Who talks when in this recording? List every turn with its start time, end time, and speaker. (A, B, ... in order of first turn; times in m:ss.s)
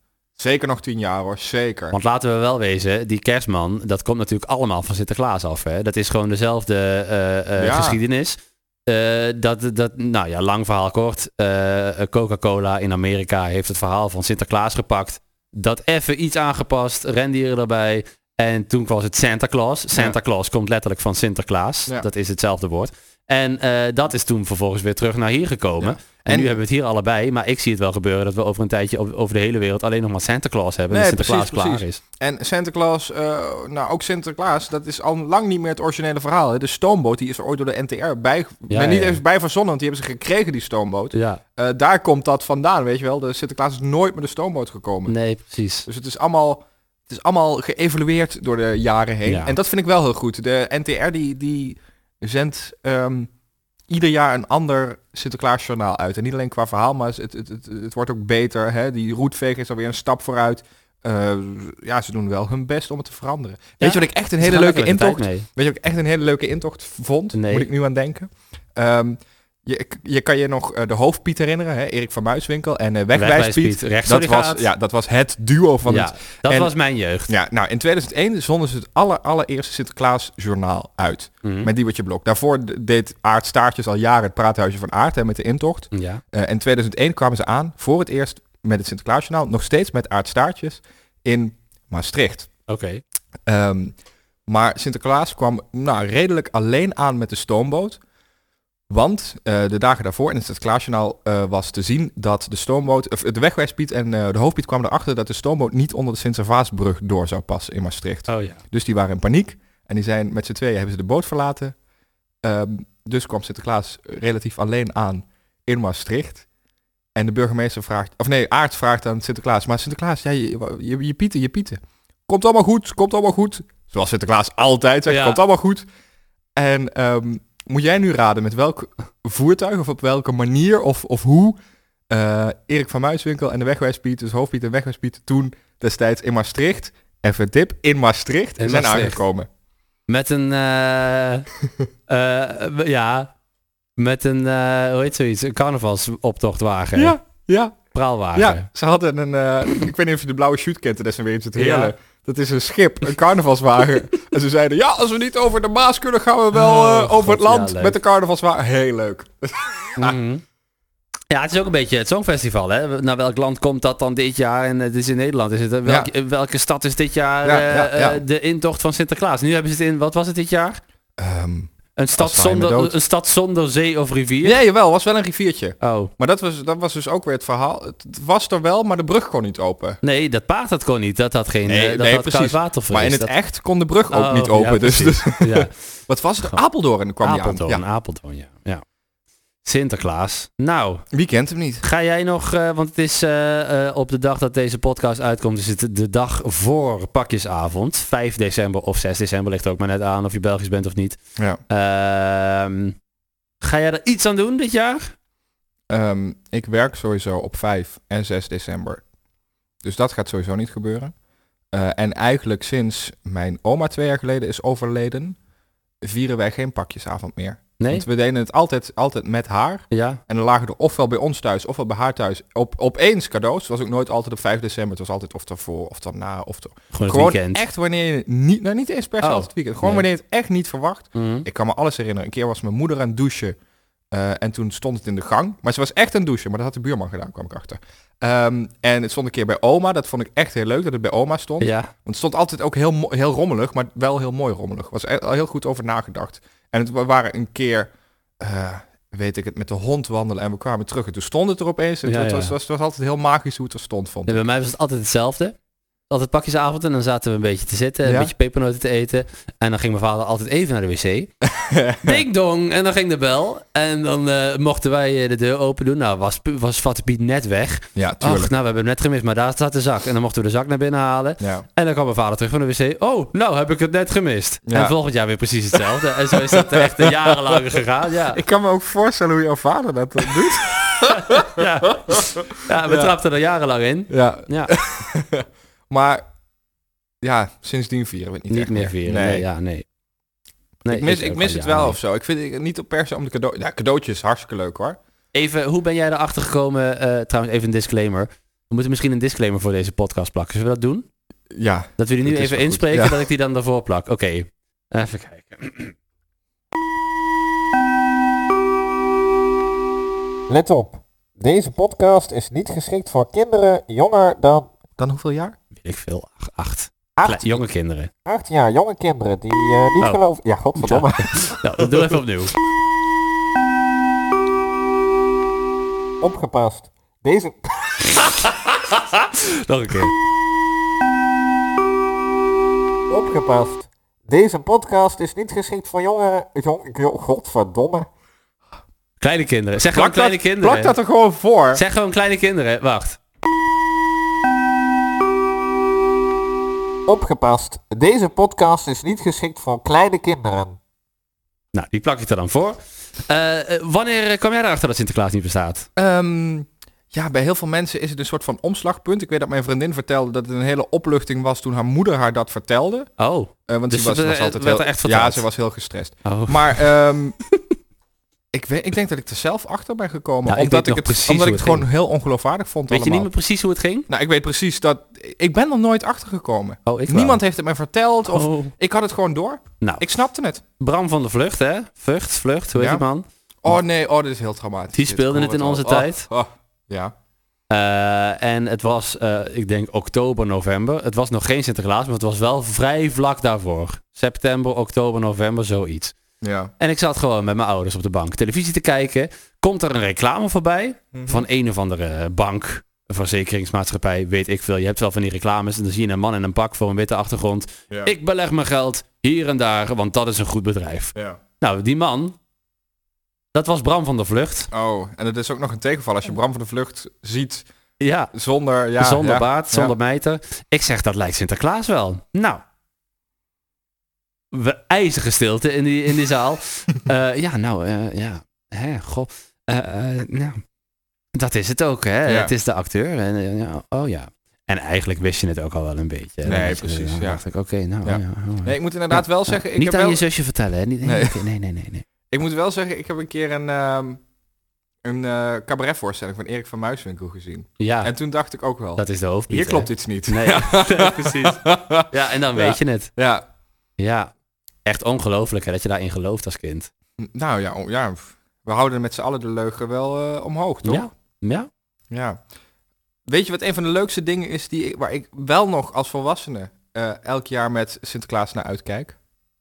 0:00.4-0:02.0 A
0:01.9-0:32.0 B
0:07.6-0:08.0 A
0:25.8-0:26.6 A
0:30.9-0:45.2 A
0:38.7-0:39.2 B
0:41.1-0:41.4 B
0:45.1-0:45.9 B
0:45.9-0:53.3 A
0:49.2-0:49.6 B
0:53.9-1:16.7 A
1:03.8-1:05.5 B
1:07.3-1:07.7 B
1:13.2-1:14.7 B
1:15.9-1:17.3 B
1:17.3-1:32.5 A
1:21.4-1:21.7 B
1:25.9-1:26.2 B
1:32.7-1:33.0 B
1:33.5-1:33.9 A
1:34.5-1:38.0 A
1:38.9-1:51.8 A
1:48.3-1:48.6 B
1:52.4-1:56.5 A
1:57.2-2:05.8 A
2:05.1-2:05.4 B
2:06.6-2:11.6 A
2:12.1-2:19.5 A
2:18.6-2:19.2 B
2:20.1-2:21.5 B
2:22.1-2:23.3 B
2:24.0-2:27.2 B
2:27.0-2:27.8 A
2:27.9-2:28.7 B
2:28.4-2:40.2 A
2:31.6-2:31.9 B
2:36.5-2:38.0 B
2:40.0-2:40.4 B
2:41.3-2:50.8 B
2:47.4-2:48.2 A
2:51.2-2:53.0 A
2:52.0-2:54.6 B
2:54.4-3:00.0 A
2:55.8-2:56.1 B
3:00.0-3:03.3 B
3:01.7-3:07.8 A
3:04.1-3:05.8 B
3:07.2-3:08.8 B
3:09.6-3:11.0 B
3:11.1-3:11.8 A
3:11.8-3:21.2 B
3:21.7-3:23.0 B
3:23.6-3:25.1 B
3:25.9-3:29.0 A
3:29.8-3:31.1 A
3:31.7-3:35.4 A
3:36.0-3:53.6 A
3:37.8-3:38.0 B
3:39.9-3:40.2 B
3:46.9-3:47.6 B
3:49.2-3:50.0 B
3:51.1-3:51.5 B
3:54.1-4:14.4 A
4:01.6-4:01.9 B
4:12.0-4:12.6 B
4:14.3-4:15.6 B
4:16.1-4:21.3 B
4:18.0-4:18.3 A
4:21.4-4:22.2 A
4:22.0-4:38.4 B
4:28.0-4:28.5 A
4:31.4-4:31.7 A
4:34.7-4:35.0 A
4:35.7-4:37.6 A
4:38.3-4:43.2 A
4:41.0-4:44.7 B
4:44.1-4:46.2 A
4:47.2-4:49.5 A
4:48.5-4:49.8 B
4:50.8-4:52.0 B
4:50.9-4:55.0 A
4:55.3-5:01.1 B
5:01.5-5:03.2 A
5:02.0-5:05.9 B
5:10.5-5:14.7 C
5:15.0-5:15.6 A
5:15.8-5:18.1 B
5:18.3-5:21.6 C
5:20.8-5:22.5 B
5:26.2-5:28.3 C
5:28.2-5:30.1 B
5:33.1-5:38.1 C
5:39.2-5:40.9 B
5:39.9-5:41.8 A
5:41.7-5:43.2 B
5:47.1-5:50.8 C
5:51.7-5:55.9 B
5:56.0-6:03.1 A
6:03.2-6:05.5 B
6:03.7-6:07.4 A
6:06.2-6:06.9 B
6:08.5-6:13.3 A
6:10.5-6:11.9 B
6:12.9-6:14.1 B
6:14.1-6:20.6 A
6:16.9-6:17.4 B
6:18.3-6:18.7 B
6:20.8-6:23.8 B
6:22.8-6:23.0 A
6:23.6-6:27.1 A
6:24.9-6:26.3 B
6:27.7-6:36.2 B
6:36.4-6:36.7 A
6:36.8-6:52.4 B
6:41.1-6:41.5 A
6:53.5-6:54.7 B
6:54.7-6:57.7 A
6:58.0-6:58.3 B
6:58.3-7:00.0 A
6:59.0-7:02.6 B
7:04.5-7:10.6 B
7:11.4-7:22.0 B
7:12.3-7:12.5 A
7:16.4-7:17.4 A
7:18.0-7:20.2 A
7:21.0-7:21.4 A
7:22.3-7:24.2 A
7:25.0-7:33.4 A
7:27.8-7:28.1 B
7:29.0-7:33.1 B
7:34.0-7:34.3 B
7:34.8-7:36.9 B
7:37.2-7:41.1 A
7:40.8-7:41.7 B
7:42.1-7:42.4 A
7:43.3-7:49.2 A